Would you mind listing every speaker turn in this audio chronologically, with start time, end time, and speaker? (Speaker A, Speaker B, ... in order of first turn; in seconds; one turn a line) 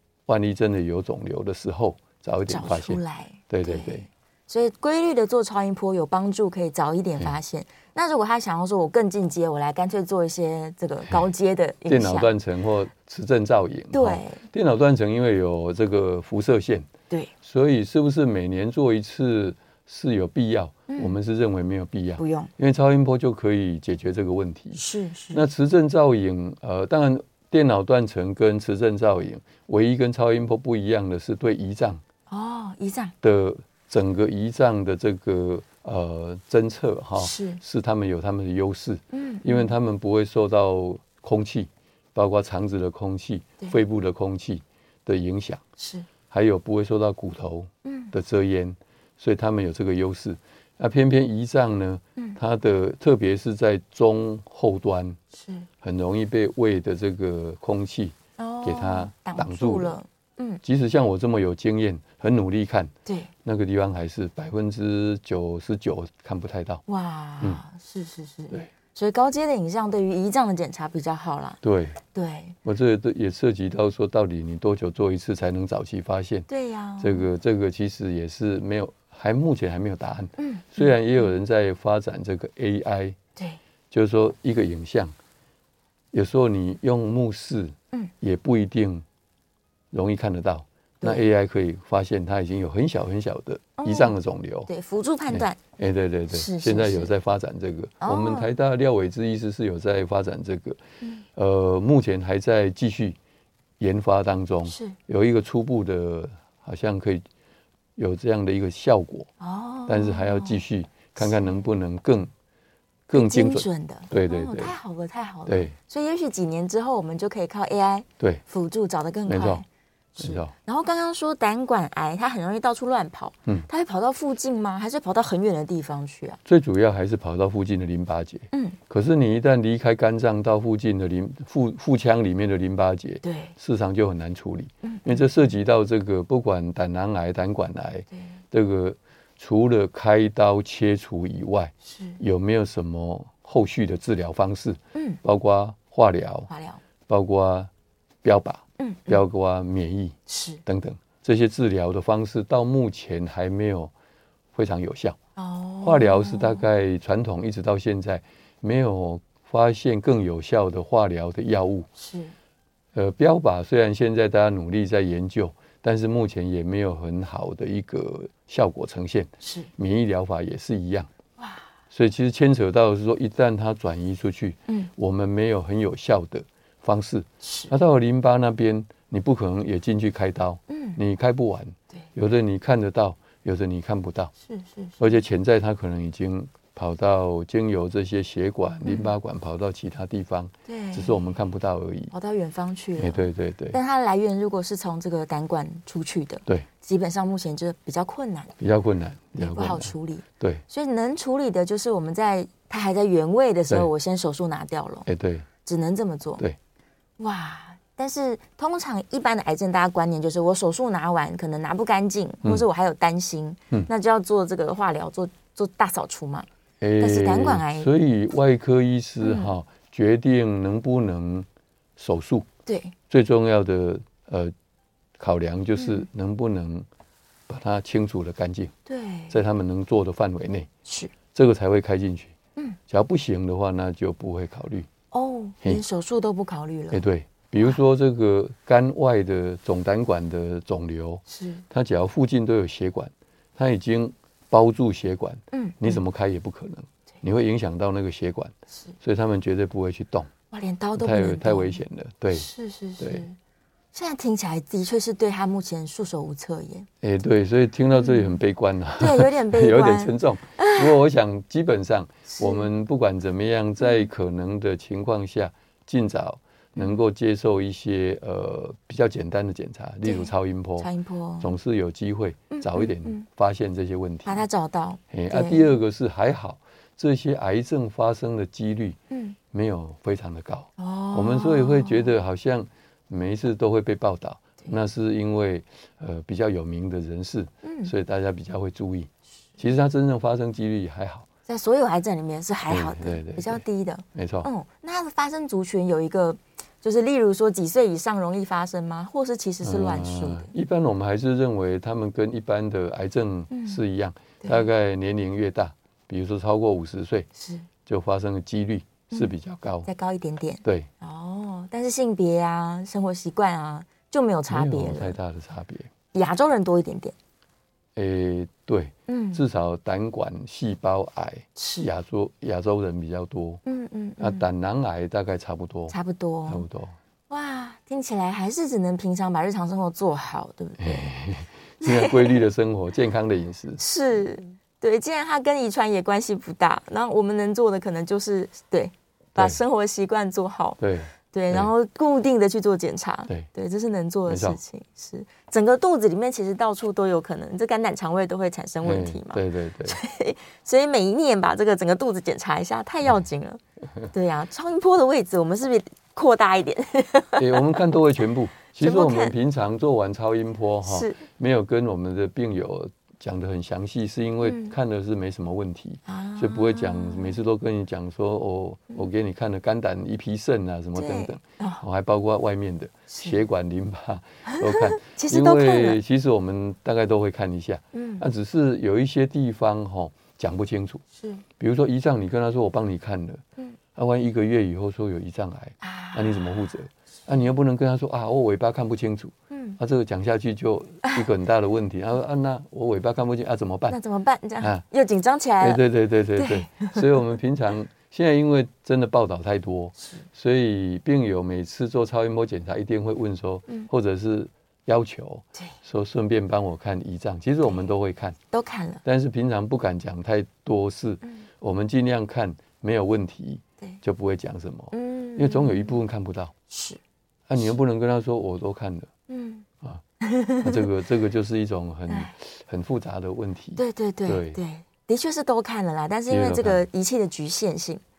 Speaker A: 0.3-4.1
Speaker B: 2.5-12.3
Speaker A: 11.8-16.9
Speaker B: 13.9-14.4
Speaker A: 17.4-32.0
Speaker B: 20.9-21.1
Speaker B: 22.2-22.5
Speaker B: 24.7-25.4
Speaker B: 32.3-33.1
Speaker A: 33.2-45.6
Speaker B: 37.1-37.6
Speaker B: 39.1-39.7
Speaker B: 45.8-46.0
Speaker A: 46.3-55.2
Speaker B: 47.8-48.1
Speaker B: 55.3-55.7
Speaker A: 55.8-60.0
Speaker B: 58.4-60.6
Speaker A: 60.6-62.9
Speaker B: 63.0-63.3
Speaker A: 63.4-66.8
Speaker B: 66.9-71.6
Speaker A: 71.6-72.0
Speaker B: 72.1-72.6
Speaker A: 72.6-76.5
Speaker B: 76.5-77.3
Speaker A: 77.0-83.2
Speaker B: 80.4-81.2
Speaker A: 83.9-85.1
Speaker A: 86.1-89.0
Speaker A: 89.9-94.7
Speaker B: 93.8-94.2
Speaker B: 94.7-95.6
Speaker A: 95.3-100.8
Speaker B: 96.3-97.1
Speaker B: 98.0-98.5
Speaker A: 101.3-103.2
Speaker A: 103.8-107.2
Speaker B: 104.7-105.0
Speaker A: 108.0-109.3
Speaker B: 109.4-110.6
Speaker A: 109.9-112.3
Speaker B: 111.1-111.6
Speaker A: 113.1-114.8
Speaker B: 113.1-119.7
Speaker A: 115.5-115.7
Speaker A: 119.3-119.6
Speaker A: 120.2-120.5
Speaker B: 120.2-126.4
Speaker A: 126.4-146.5
Speaker B: 128.5-128.8
Speaker B: 133.2-133.5
Speaker B: 134.8-135.3
Speaker B: 141.8-142.2
Speaker B: 146.5-146.8
Speaker A: 147.1-147.7
Speaker A: 148.2-153.9
Speaker B: 148.8-149.2
Speaker B: 150.3-150.6
Speaker A: 154.5-155.2
Speaker B: 155.4-156.6
Speaker A: 155.8-161.9
Speaker B: 161.9-162.3
Speaker A: 162.9-171.1
Speaker B: 169.4-169.7
Speaker B: 171.4-171.7
Speaker A: 171.9-184.3
Speaker B: 177.4-177.7
Speaker B: 180.7-181.0
Speaker B: 184.4-185.1
Speaker A: 185.0-192.1
Speaker B: 188.8-189.1
Speaker B: 190.7-191.2
Speaker B: 192.1-198.5
Speaker A: 193.0-193.8
Speaker A: 198.6-200.6
Speaker B: 199.4-205.1
Speaker A: 205.1-205.5
Speaker B: 205.6-206.4
Speaker B: 207.2-216.5
Speaker A: 216.8-221.4
Speaker B: 217.0-217.9
Speaker B: 219.2-219.5
Speaker A: 222.0-222.5
Speaker B: 222.7-222.9
Speaker A: 223.1-224.5
Speaker A: 225.2-226.9
Speaker B: 225.8-226.1
Speaker A: 227.5-228.7
Speaker B: 228.9-229.4
Speaker A: 229.3-230.7
Speaker B: 230.8-231.1
Speaker A: 231.3-232.3
Speaker A: 232.9-234.9
Speaker B: 235.1-237.0
Speaker A: 236.9-250.3
Speaker B: 241.3-241.6
Speaker B: 245.5-246.0
Speaker B: 250.5-251.8
Speaker A: 251.0-252.5
Speaker B: 252.3-253.3
Speaker A: 253.0-253.2
Speaker B: 253.9-256.9
Speaker A: 257.0-274.4
Speaker B: 257.9-258.4
Speaker B: 259.0-261.0
Speaker B: 262.3-262.7
Speaker B: 263.8-264.1
Speaker B: 270.0-271.5
Speaker B: 272.5-273.2
Speaker B: 274.2-275.7
Speaker A: 275.1-279.0
Speaker B: 279.1-279.4
Speaker A: 279.5-291.3
Speaker B: 280.8-282.1
Speaker B: 287.6-287.9
Speaker B: 291.5-300.5
Speaker A: 292.7-294.5
Speaker A: 299.6-307.3
Speaker B: 303.5-303.8
Speaker B: 307.4-307.6
Speaker A: 307.9-309.9
Speaker B: 309.8-315.2
Speaker A: 310.6-310.9
Speaker A: 314.5-315.9
Speaker B: 316.1-317.1
Speaker A: 317.9-323.6
Speaker B: 319.1-319.4
Speaker B: 321.6-321.9
Speaker B: 323.6-324.4
Speaker A: 324.2-326.9
Speaker B: 325.9-326.6
Speaker B: 327.3-331.1
Speaker A: 330.8-333.8
Speaker B: 331.8-332.4
Speaker B: 333.8-340.8
Speaker A: 340.8-341.7
Speaker B: 341.3-353.6
Speaker A: 344.3-344.6
Speaker A: 348.8-350.0
Speaker B: 354.1-357.9
Speaker A: 357.4-381.0
Speaker B: 358.8-359.4
Speaker B: 360.8-361.2
Speaker B: 364.4-364.8
Speaker B: 366.1-367.4
Speaker B: 370.9-371.8
Speaker B: 373.1-373.4
Speaker B: 374.5-376.0
Speaker B: 377.9-378.2
Speaker B: 381.2-381.4
Speaker A: 381.6-383.4
Speaker A: 383.9-394.0
Speaker B: 385.8-386.5
Speaker B: 389.5-389.8
Speaker B: 393.9-395.8
Speaker A: 395.6-408.4
Speaker B: 396.4-397.2
Speaker B: 400.0-400.2
Speaker B: 408.5-409.0
Speaker A: 409.0-416.5
Speaker B: 414.9-416.0
Speaker B: 416.7-417.0
Speaker A: 417.5-419.1
Speaker B: 419.3-419.6
Speaker B: 420.2-420.9
Speaker A: 420.6-424.6
Speaker B: 423.8-428.0
Speaker A: 426.3-426.8